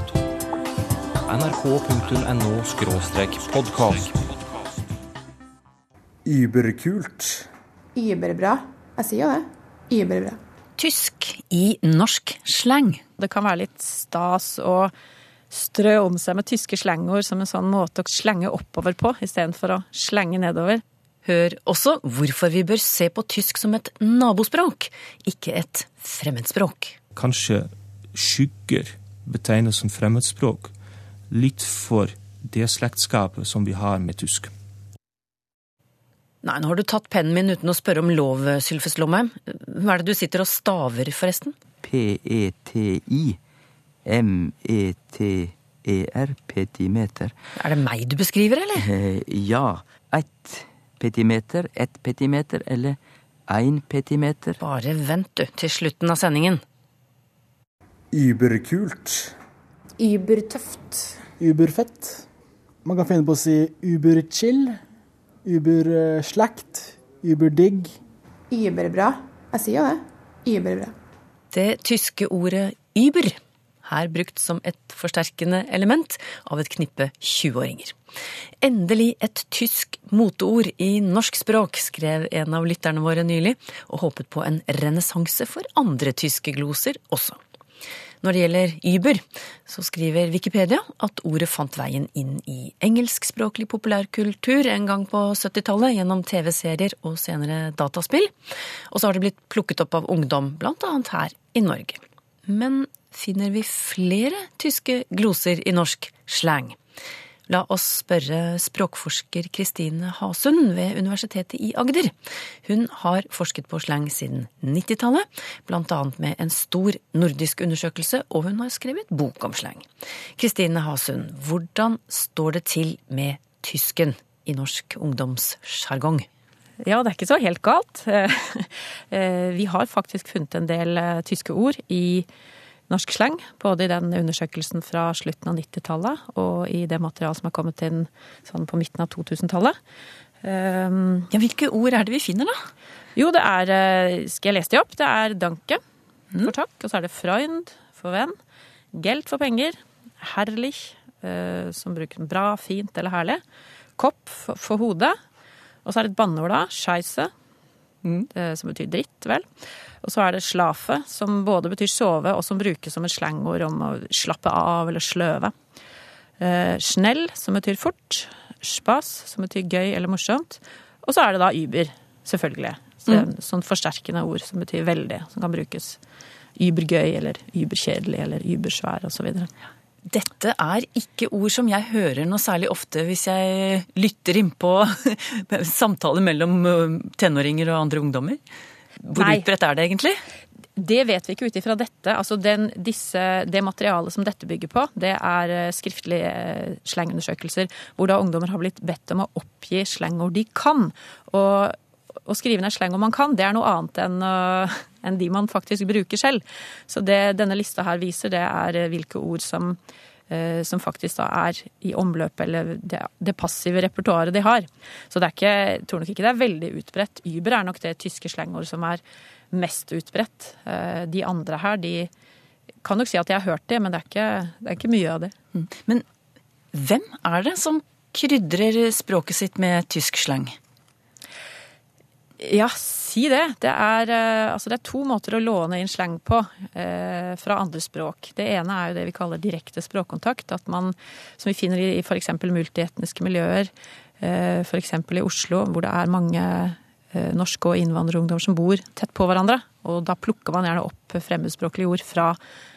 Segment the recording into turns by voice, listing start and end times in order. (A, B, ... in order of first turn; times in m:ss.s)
0:01.2-0:04.1 A
0:06.3-0:07.5 B
0:08.0-0:10.4 C
0:10.8-0:13.0 D
0:13.2-0:14.9 E
0:15.5-0:20.8 E
0:21.2-0:27.0 D
0:27.2-0:30.7 F
0:31.3-0:34.5 F
0:36.4-0:41.6 D
0:41.8-0:43.4 G
0:44.0-0:47.3 G
0:47.6-0:48.9 D
0:48.8-0:54.6 G
0:54.6-0:56.6 D
0:58.1-0:59.3 B
1:00.0-1:01.2 C
1:01.4-1:02.3 B
1:02.8-1:04.8 B
1:05.4-1:08.0 B
1:08.5-1:10.9 C
1:11.5-1:18.0 D
1:18.6-1:27.4 D
1:28.2-1:38.3 D
1:38.9-1:46.8 D
1:47.5-1:52.1 D
1:52.6-1:59.9 D
2:00.4-2:06.3 D
2:06.8-2:12.3 E
2:12.9-2:19.8 E
2:20.4-2:21.3 E
2:21.3-2:22.6 D
2:23.2-2:25.8 E
2:26.4-2:28.4 E
2:28.9-2:33.4 E
2:34.0-2:35.2 E
2:35.8-2:37.3 E
2:38.3-2:39.5 E
2:40.0-2:45.5 E
2:46.4-2:56.0 E
2:56.6-2:59.5 E
3:00.1-3:08.4 D
3:09.0-3:10.2 D
3:09.2-3:09.4 E
3:10.8-3:29.8 E
3:30.3-3:39.0 E
3:39.5-3:42.1 E
3:42.8-3:45.3 E
3:45.6-3:46.0 D
3:46.7-3:50.6 D
3:52.4-4:12.4 E